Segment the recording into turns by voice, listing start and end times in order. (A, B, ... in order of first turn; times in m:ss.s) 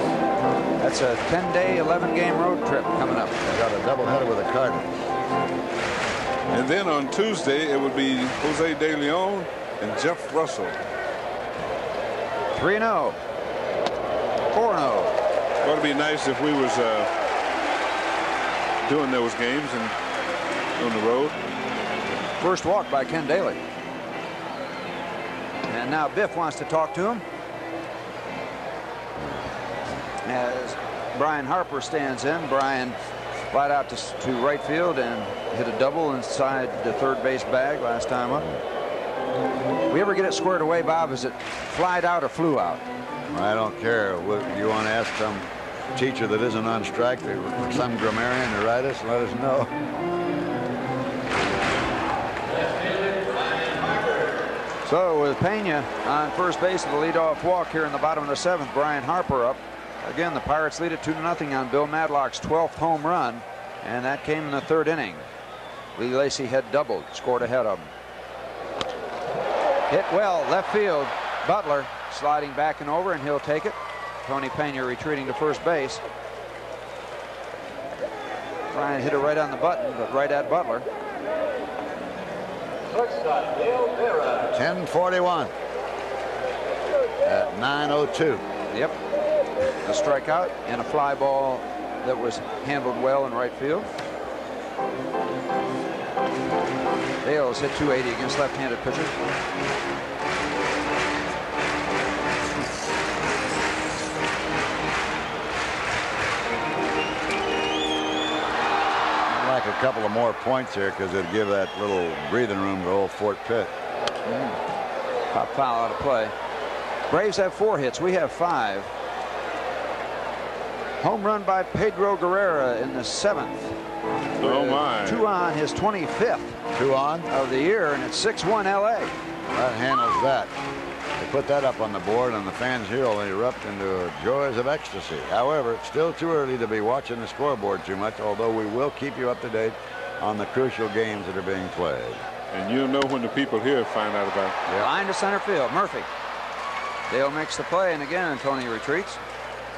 0:00.8-0:03.4 A
0:03.4-0:05.1 B
0:06.5-0:10.8 C
0:12.5-0:13.2 A
0:14.5-0:15.1 A
0:15.6-0:17.1 C
0:18.8-0:19.9 C
0:20.8-0:21.4 C
0:22.4-0:23.6 A
0:25.7-0:27.2 A
0:30.2-0:33.0 A
0:33.5-0:38.5 A
0:39.9-0:42.8 A
0:43.3-0:49.7 B
0:54.8-1:05.2 A
1:06.0-1:07.9 A
1:09.9-1:16.0 A
1:18.7-1:20.9 A
1:24.5-1:25.5 B
1:27.2-1:28.4 B
1:28.7-1:29.0 A
1:29.8-1:33.9 A
1:37.2-1:39.2 A
1:49.3-1:53.7 B
1:55.3-1:56.3 A
1:57.1-1:58.9 A
2:01.0-2:03.8 A
2:04.4-2:06.6 A
2:04.4-2:05.2 C
2:06.7-2:07.3 B
2:07.3-2:09.2 A
2:09.5-2:10.5 B
2:11.2-2:22.2 B
2:22.5-2:24.6 C
2:24.8-2:26.1 A
2:27.1-2:29.2 A